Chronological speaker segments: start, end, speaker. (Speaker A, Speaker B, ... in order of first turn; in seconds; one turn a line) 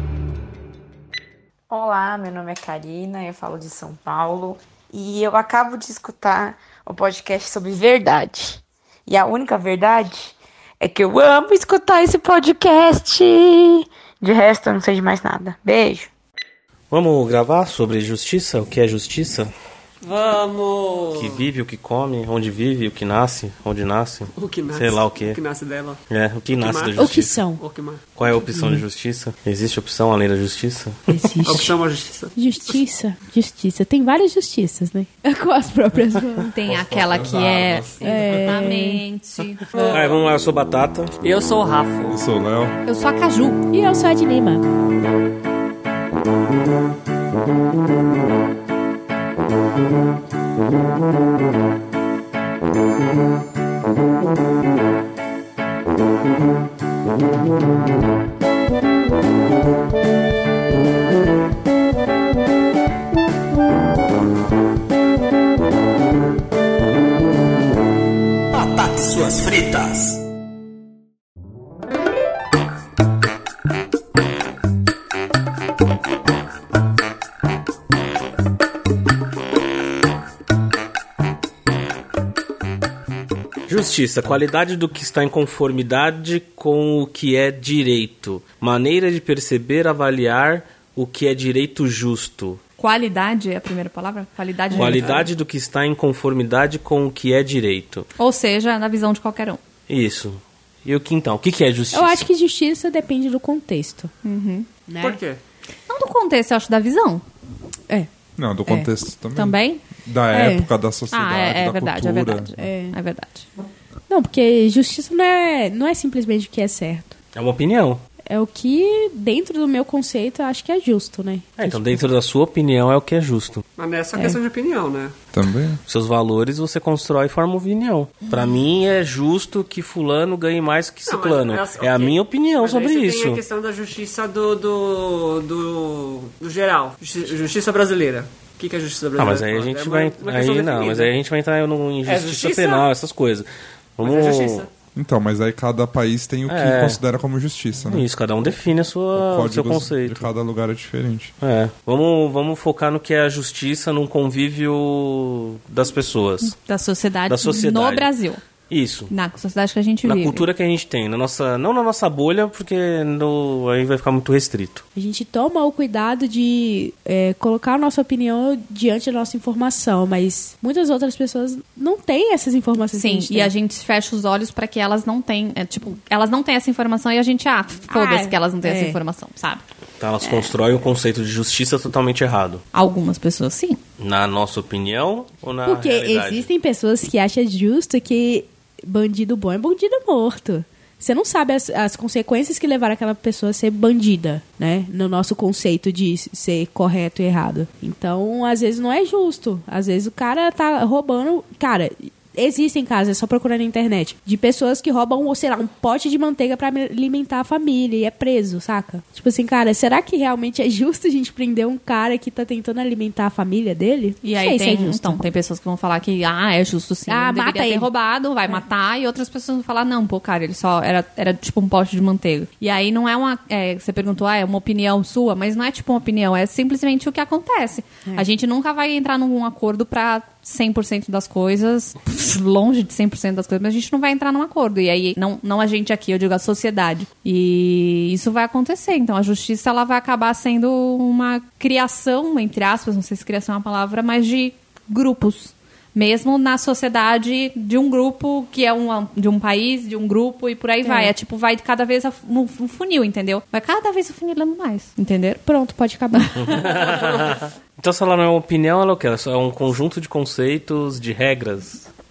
Speaker A: 1.7-16.1
Speaker B: 16.9-19.5
Speaker C: 20.0-21.4
Speaker B: 21.1-25.4
Speaker C: 24.4-28.0
Speaker B: 26.1-27.4
Speaker D: 27.0-27.6
Speaker B: 28.2-31.2
Speaker D: 28.5-28.8
Speaker D: 31.1-31.8
Speaker C: 31.4-32.4
Speaker D: 32.4-36.5
Speaker E: 36.4-39.7
Speaker F: 36.8-37.9
Speaker B: 37.1-37.8
Speaker D: 38.0-39.0
Speaker C: 39.7-40.2
Speaker B: 39.8-41.2
Speaker C: 41.2-42.2
Speaker F: 42.1-42.8
Speaker E: 42.9-43.6
Speaker D: 43.7-44.6
Speaker B: 68.5-70.2
Speaker B: 83.7-92.6
Speaker E: 92.8-95.2
Speaker D: 94.7-95.0
Speaker B: 94.7-98.1
Speaker C: 95.0-95.3
Speaker E: 98.2-99.6
Speaker B: 99.9-102.2
Speaker D: 101.9-104.1
Speaker E: 104.2-104.7
Speaker D: 104.9-105.2
Speaker C: 105.0-105.4
Speaker E: 105.9-107.2
Speaker F: 108.4-112.6
Speaker E: 109.3-109.8
Speaker D: 110.3-110.7
Speaker E: 111.1-113.5
Speaker D: 112.6-113.0
Speaker D: 114.1-117.2
Speaker B: 117.3-118.0
Speaker D: 118.3-122.0
Speaker B: 121.6-123.6
Speaker C: 123.8-125.1
Speaker F: 125.3-125.8
Speaker B: 125.9-133.4
Speaker C: 131.1-141.1
Speaker B: 139.2-144.7
Speaker C: 142.1-142.9
Speaker C: 144.0-144.7
Speaker F: 144.9-148.1
Speaker B: 146.5-147.0
Speaker B: 147.9-150.3
Speaker F: 149.2-151.3
Speaker B: 151.4-156.6
Speaker E: 156.4-158.4
Speaker B: 157.3-158.1
Speaker B: 158.7-159.1
Speaker E: 159.1-160.5
Speaker B: 160.0-164.8
Speaker D: 164.9-173.5
Speaker E: 172.9-179.6
Speaker D: 177.9-179.0
Speaker B: 180.0-182.6
Speaker D: 180.2-180.5
Speaker E: 182.7-183.8
Speaker B: 184.0-186.5
Speaker D: 185.7-215.2
Speaker E: 214.2-255.4
Speaker D: 217.1-217.9
Speaker D: 250.8-251.1
Speaker D: 255.5-256.8
Speaker B: 256.4-261.9